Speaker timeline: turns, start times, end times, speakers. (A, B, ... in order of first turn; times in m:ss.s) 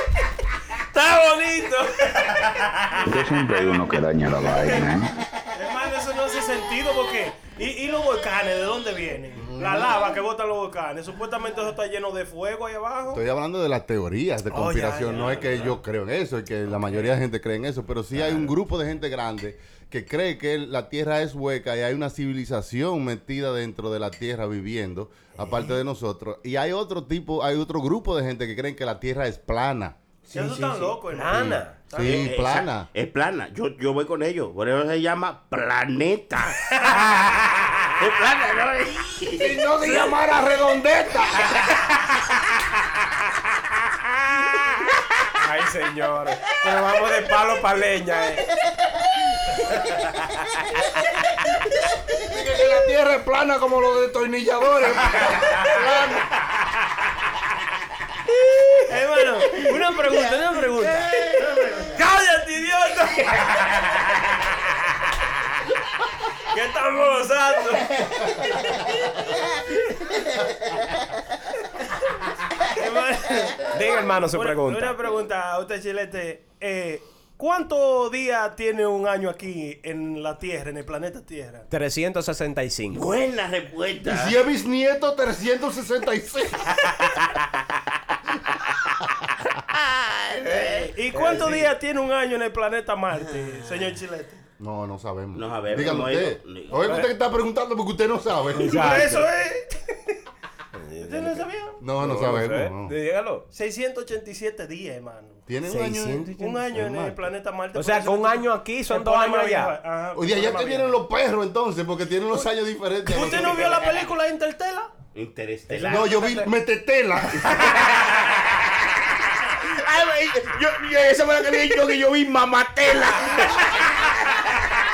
0:00.9-0:02.8 A
0:03.0-0:05.1 B
0:05.5-0:13.2 C
0:09.4-0:10.0 D
0:13.1-0:30.0 D
0:14.5-0:15.7 C
0:30.3-0:31.0 E
0:30.3-0:32.3 C
0:31.1-0:31.8 A
0:31.3-0:32.9 D
0:32.0-0:36.8 E
0:38.0-0:39.6 E
0:39.4-0:41.6 D
0:45.4-0:48.4 A
0:52.2-0:56.3 D
0:58.9-1:02.0 C
1:01.9-1:03.6 A
1:06.5-1:07.9 C
1:07.5-1:07.8 A
1:12.7-1:13.7 C
1:13.7-1:15.0 A
1:14.3-1:21.7 C
1:21.7-1:23.0 A
1:22.9-1:24.4 E
1:24.0-1:26.8 D
1:29.8-1:30.9 E
1:30.9-1:34.4 C
1:31.1-1:31.7 A
1:33.2-1:33.8 E
1:34.6-1:39.1 D
1:35.3-1:37.0 E
1:38.6-1:39.3 A
1:38.6-1:39.8 C
1:40.8-1:41.4 A
1:41.0-1:41.8 C
1:41.8-1:42.9 D
1:42.0-1:43.5 A
1:43.5-1:45.4 C
1:45.5-1:47.3 D
1:45.7-1:46.6 A
1:46.4-1:51.0 C
1:47.8-1:49.8 A
1:50.1-1:53.8 D
1:53.1-1:54.9 C
1:55.1-1:56.2 E
1:55.7-1:56.4 A
1:55.8-1:57.8 D
1:59.6-2:04.2 E